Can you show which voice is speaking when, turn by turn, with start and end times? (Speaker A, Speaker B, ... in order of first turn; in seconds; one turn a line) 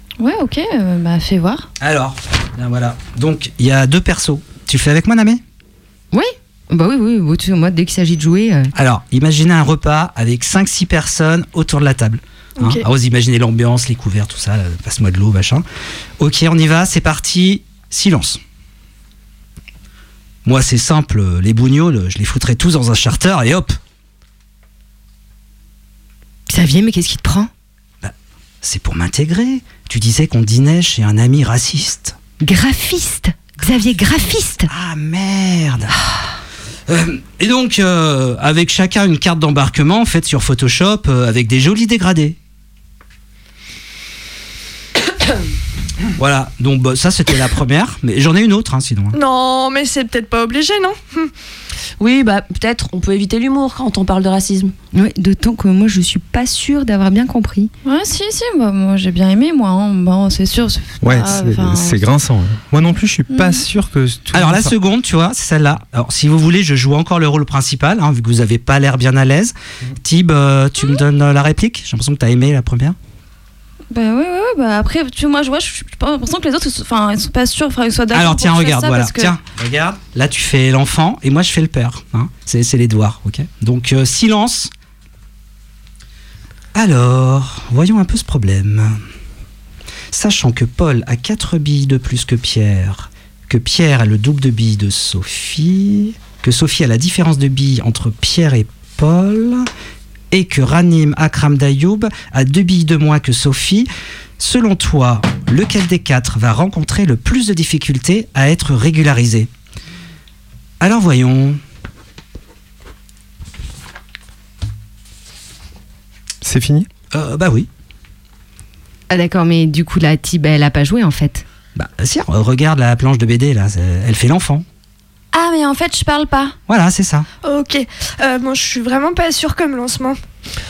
Speaker A: 0.2-1.7
Speaker B: 1.8-5.4
Speaker C: 6.1-8.7
Speaker B: 8.7-15.6
Speaker D: 12.6-12.8
Speaker B: 16.2-18.4
Speaker B: 20.4-23.8
Speaker C: 26.5-27.5
Speaker B: 28.0-32.2
Speaker C: 32.4-34.7
Speaker B: 34.7-35.9
Speaker B: 36.9-42.4
Speaker B: 46.2-49.1
Speaker D: 49.1-51.3
Speaker E: 52.0-54.7
Speaker C: 54.9-57.7
Speaker A: 57.8-62.0
Speaker F: 61.0-64.8
Speaker A: 63.3-63.6
Speaker B: 64.3-73.0
Speaker A: 73.9-79.4
Speaker B: 78.1-84.7
Speaker B: 86.7-89.0
Speaker B: 90.1-99.7
Speaker B: 100.3-103.9
Speaker B: 104.4-109.5
Speaker B: 110.8-111.6
Speaker F: 116.4-116.9
Speaker B: 117.1-117.7
Speaker C: 119.1-121.4
Speaker B: 121.8-124.6
Speaker A: 125.3-126.5
Speaker B: 126.7-127.3
Speaker D: 127.4-130.2